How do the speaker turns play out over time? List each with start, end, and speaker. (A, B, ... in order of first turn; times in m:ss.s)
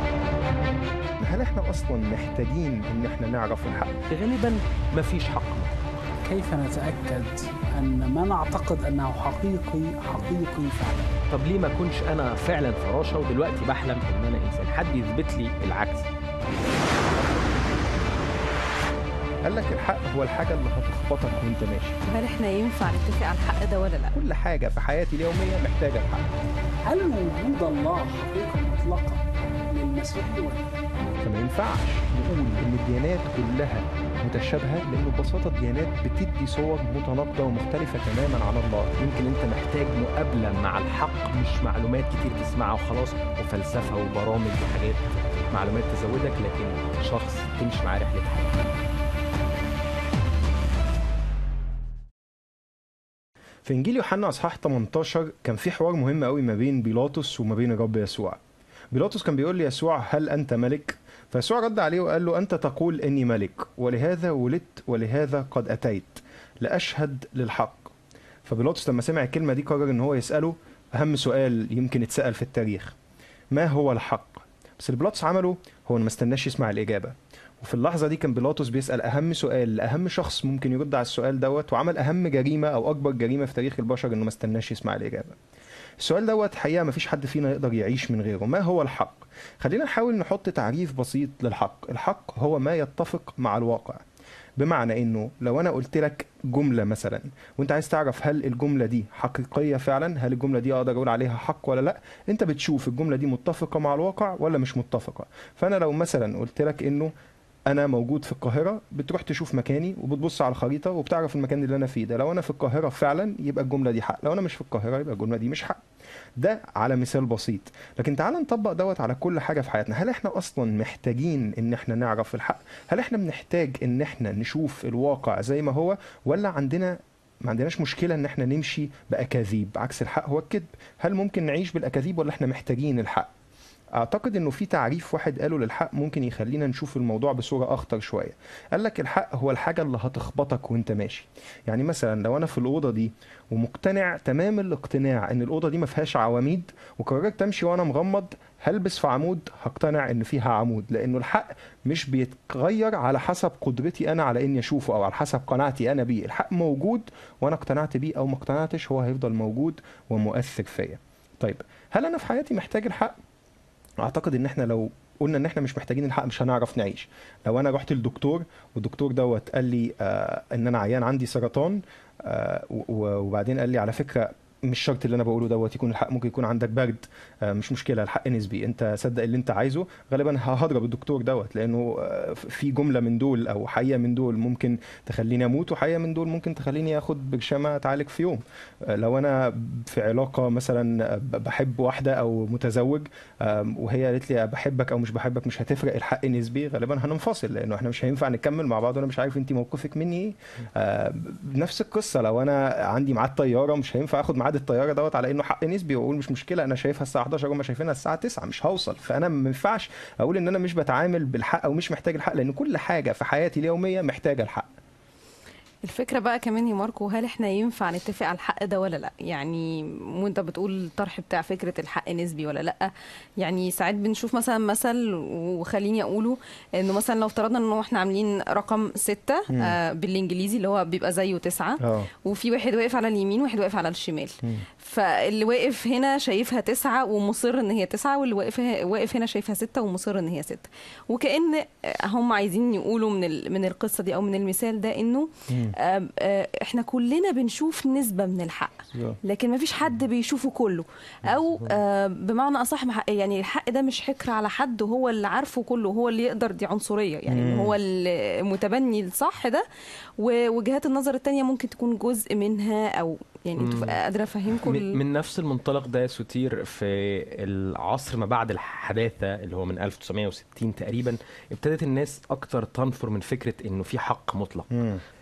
0:01.2-0:04.0 A
0:04.1-0:05.8 B
0:06.2-0:11.1 C
0:11.3-0:16.1 B
0:19.5-0:21.9 A
0:22.1-0:24.2 D
0:24.1-0:26.3 A
0:26.8-0:30.6 C
0:31.1-0:38.9 A
0:39.0-0:48.6 B
0:53.6-0:58.4 A
0:58.9-1:07.9 A
1:08.4-1:12.9 A
1:13.5-1:25.4 A
1:26.0-1:34.0 A
1:34.6-1:47.1 A
1:47.7-1:55.8 A
1:56.4-2:13.3 A
2:14.0-2:43.2 A
2:44.0-3:34.7 A
3:35.8-4:08.7 D
3:49.5-3:49.8 A
3:51.8-3:52.1 A
4:09.2-4:19.6 D
4:17.3-4:17.8 A
4:20.2-4:25.0 D
4:23.6-4:24.0 B
4:24.6-4:34.7 B
4:34.7-4:35.0 A